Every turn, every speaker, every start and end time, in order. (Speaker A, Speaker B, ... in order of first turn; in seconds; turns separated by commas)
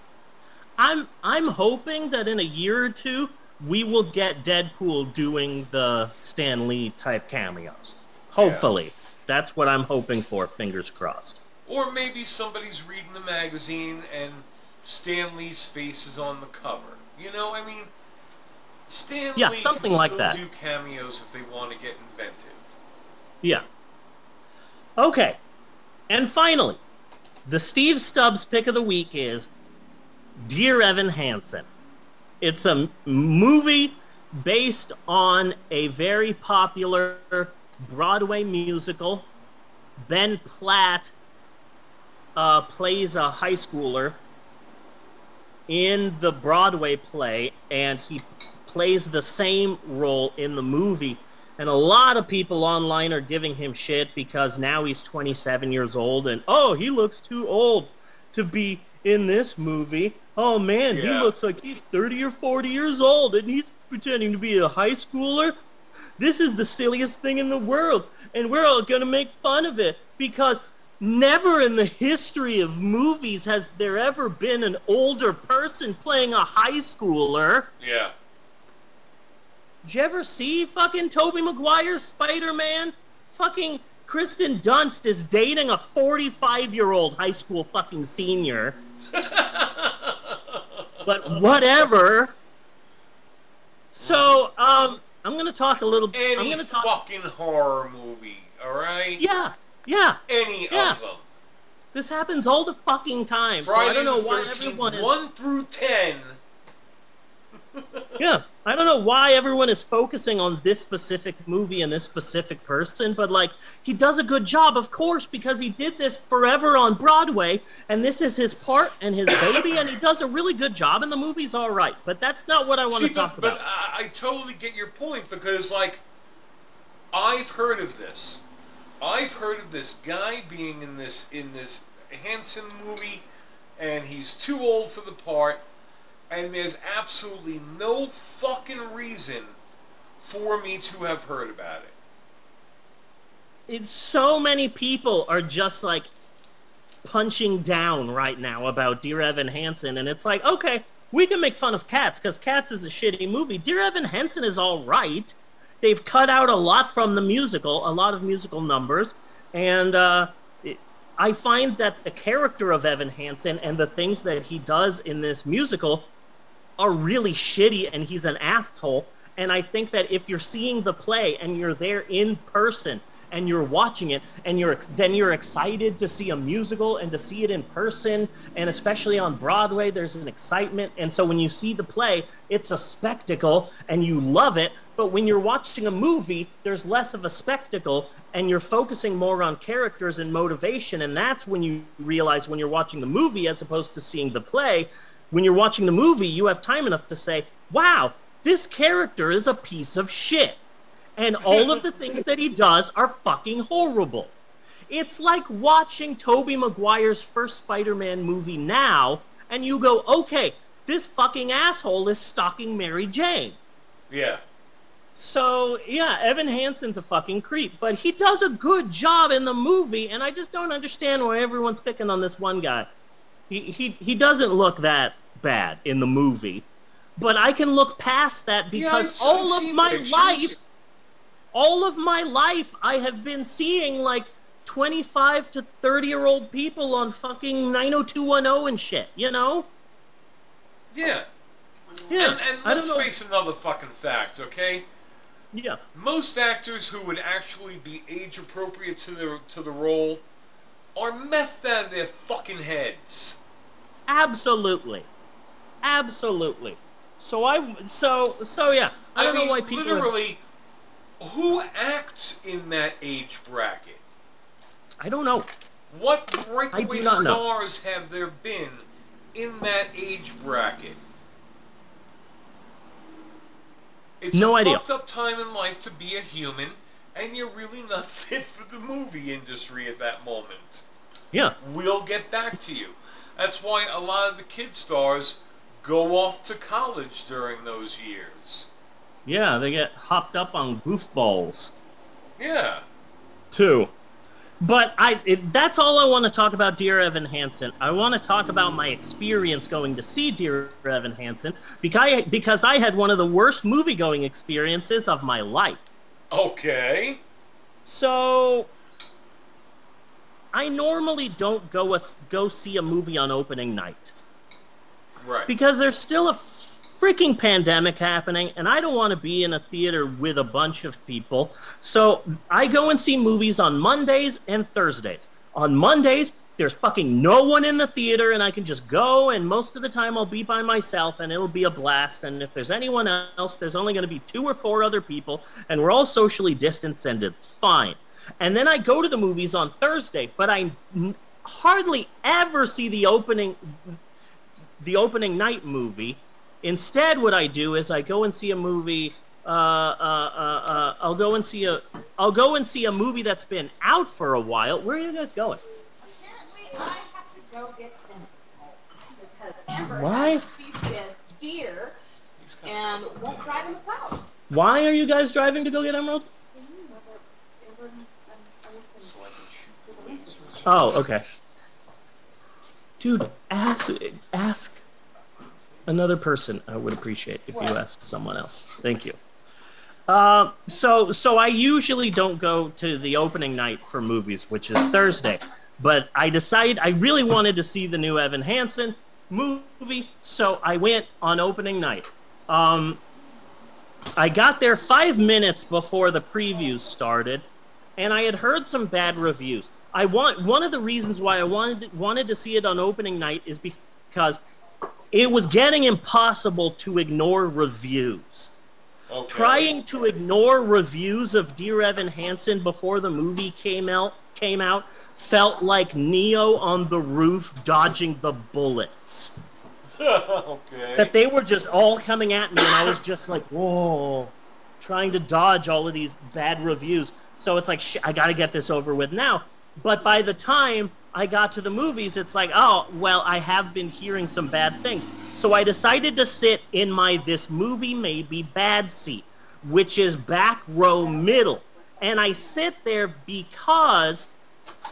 Speaker A: 0.8-11.4, Speaker B: 8.3-8.7, Speaker B: 11.7-17.9, Speaker B: 18.9-22.7, Speaker A: 19.4-20.4, Speaker A: 25.0-25.4, Speaker A: 26.1-26.8, Speaker A: 27.4-29.5, Speaker A: 30.4-31.7, Speaker A: 32.4-39.3, Speaker A: 40.0-41.1, Speaker A: 42.4-44.2, Speaker A: 45.7-65.5, Speaker B: 60.9-61.3, Speaker A: 66.2-77.7, Speaker B: 77.8-78.1, Speaker A: 79.8-88.8, Speaker B: 89.1-91.1, Speaker A: 91.0-92.3, Speaker A: 93.9-96.9, Speaker B: 94.0-94.3, Speaker B: 96.1-99.2, Speaker A: 99.2-100.2, Speaker B: 100.3-101.3, Speaker A: 100.7-101.0, Speaker A: 101.9-105.1, Speaker B: 103.6-106.4, Speaker B: 107.7-108.2, Speaker A: 108.2-123.6, Speaker B: 122.9-126.0, Speaker B: 127.1-128.4, Speaker B: 129.0-133.2, Speaker B: 133.8-135.6, Speaker B: 136.3-139.6, Speaker B: 140.2-141.9, Speaker A: 143.7-146.1, Speaker A: 147.0-166.1, Speaker A: 166.8-200.6, Speaker A: 201.2-204.3, Speaker B: 201.4-201.9, Speaker A: 204.9-213.6, Speaker B: 214.1-214.4, Speaker A: 215.1-222.9, Speaker A: 223.5-226.7, Speaker A: 227.2-230.6, Speaker B: 228.7-230.6, Speaker A: 231.5-239.7, Speaker B: 240.9-241.3, Speaker B: 241.9-244.9, Speaker A: 242.1-243.1, Speaker A: 245.5-245.8, Speaker B: 245.9-250.2, Speaker B: 250.9-253.4, Speaker A: 254.1-255.1, Speaker A: 255.8-260.1, Speaker B: 259.1-260.4, Speaker B: 261.2-264.0, Speaker A: 265.0-265.5, Speaker B: 265.9-271.0, Speaker A: 266.7-267.4, Speaker B: 274.2-280.9, Speaker A: 274.3-274.8, Speaker B: 281.6-288.7, Speaker A: 289.2-291.7, Speaker B: 292.4-292.9, Speaker A: 293.5-293.9, Speaker A: 294.6-305.8, Speaker B: 306.3-307.2, Speaker A: 307.8-308.7, Speaker A: 310.5-314.1, Speaker B: 315.2-315.5, Speaker A: 315.5-344.0, Speaker A: 344.8-355.6, Speaker C: 356.0-361.9, Speaker A: 359.7-360.4, Speaker B: 362.4-363.8, Speaker C: 362.6-364.3, Speaker A: 364.5-366.3, Speaker C: 366.5-369.3, Speaker B: 369.0-371.1, Speaker C: 369.9-370.6, Speaker A: 370.6-371.2, Speaker A: 373.0-374.8, Speaker A: 375.9-379.2, Speaker A: 380.1-393.0, Speaker A: 394.2-397.4, Speaker A: 398.0-404.4, Speaker A: 405.1-408.5, Speaker B: 409.1-409.7, Speaker A: 409.3-419.4, Speaker B: 420.0-421.1, Speaker A: 421.0-444.4